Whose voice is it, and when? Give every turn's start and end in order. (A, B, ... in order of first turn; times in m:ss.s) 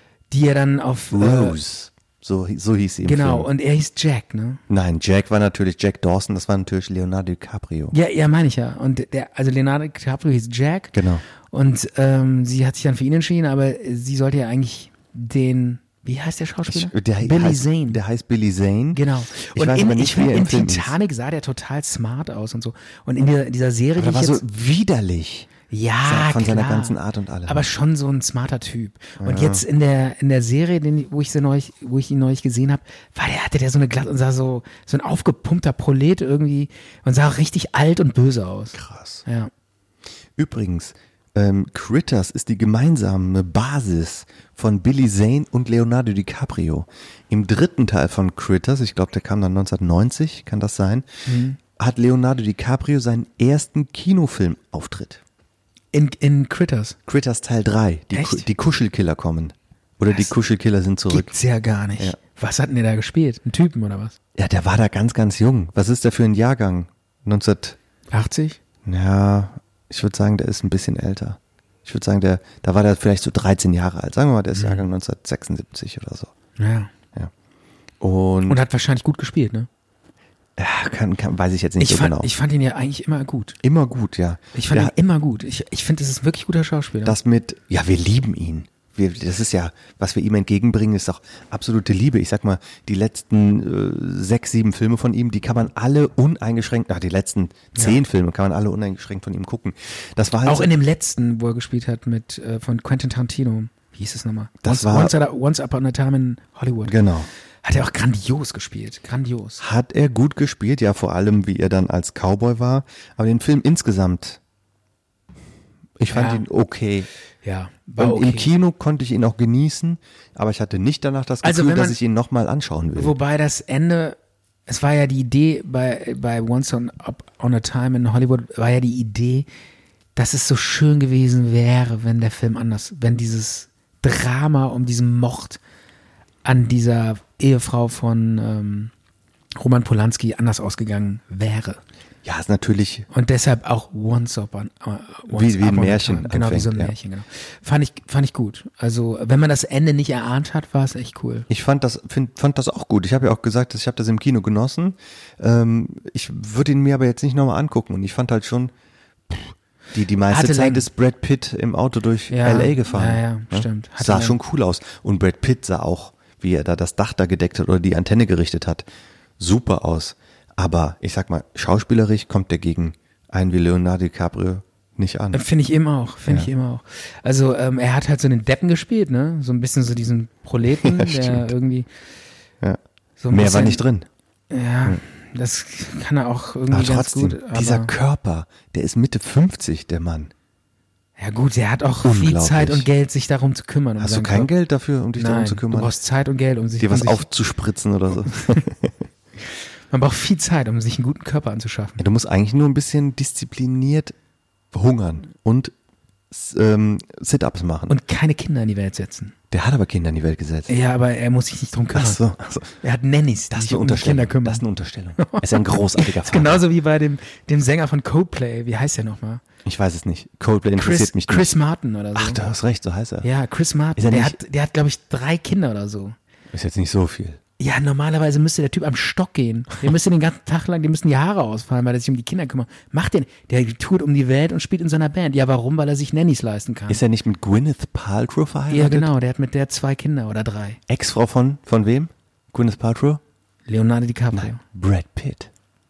0:00.3-0:01.6 A
0:01.1-0:03.5 B
0:03.0-0:04.6 A
0:04.7-0:08.0 B
0:07.9-0:11.0 A
0:10.9-0:11.2 B
0:11.5-0:18.0 A
0:16.7-0:21.0 B
0:18.9-0:24.4 A
0:24.0-0:25.5 B
0:25.7-0:39.5 A
0:26.0-0:27.6 B
0:29.2-0:29.6 B
0:38.7-0:39.2 B
0:40.4-0:51.1 B
0:51.3-0:51.6 A
0:51.8-0:55.2 B
0:55.9-0:57.0 A
0:57.1-1:01.4 B
0:58.1-0:58.5 A
1:01.1-1:04.2 A
1:04.4-1:07.8 B
1:08.1-1:08.6 A
1:08.8-1:16.3 B
1:14.5-1:14.8 A
1:16.6-1:16.9 A
1:18.0-1:18.6 B
1:18.5-1:19.7 A
1:20.6-1:22.3 B
1:21.8-1:23.6 A
1:23.6-1:24.9 B
1:24.6-1:27.2 A
1:27.0-1:40.7 B
1:37.8-1:38.0 A
1:40.4-1:47.0 A
1:44.6-1:45.1 B
1:46.8-1:47.3 B
1:47.6-1:49.6 A
1:49.6-1:54.4 B
1:56.0-1:57.1 B
1:56.1-1:56.4 A
1:57.4-1:58.5 A
1:58.0-2:03.2 B
2:01.4-2:02.0 A
2:03.0-2:09.5 A
2:10.2-2:15.6 A
2:16.4-2:18.9 A
2:19.6-2:21.8 A
2:22.2-2:23.1 B
2:23.1-2:31.5 A
2:25.3-2:26.9 B
2:31.5-2:38.7 B
2:39.3-2:48.9 B
2:40.3-2:40.9 A
2:42.3-2:44.4 A
2:49.4-2:55.4 B
2:55.3-3:01.9 A
3:00.8-3:01.5 B
3:03.2-3:03.8 A
3:03.3-3:04.1 B
3:04.5-3:07.9 A
3:06.7-3:10.3 B
3:11.2-3:14.5 A
3:12.0-3:12.9 B
3:14.0-3:15.9 B
3:15.2-3:17.3 A
3:16.8-3:18.9 B
3:19.9-3:22.0 A
3:22.0-3:24.2 B
3:24.7-3:25.7 B
3:26.3-3:28.0 B
3:27.9-3:29.4 A
3:29.5-3:30.7 B
3:30.7-3:32.2 A
3:31.9-3:32.8 B
3:32.8-3:34.6 A
3:33.5-3:36.6 B
3:35.2-3:39.4 A
3:39.6-3:41.5 B
3:40.8-3:42.4 A
3:42.1-3:43.3 B
3:43.2-3:46.2 A
3:44.0-3:44.4 B
3:46.5-3:47.4 B
3:47.6-3:57.0 A
3:56.9-3:59.1 B
3:58.7-4:00.8 A
4:00.9-4:03.2 B
4:03.7-4:04.6 A
4:04.3-4:05.5 B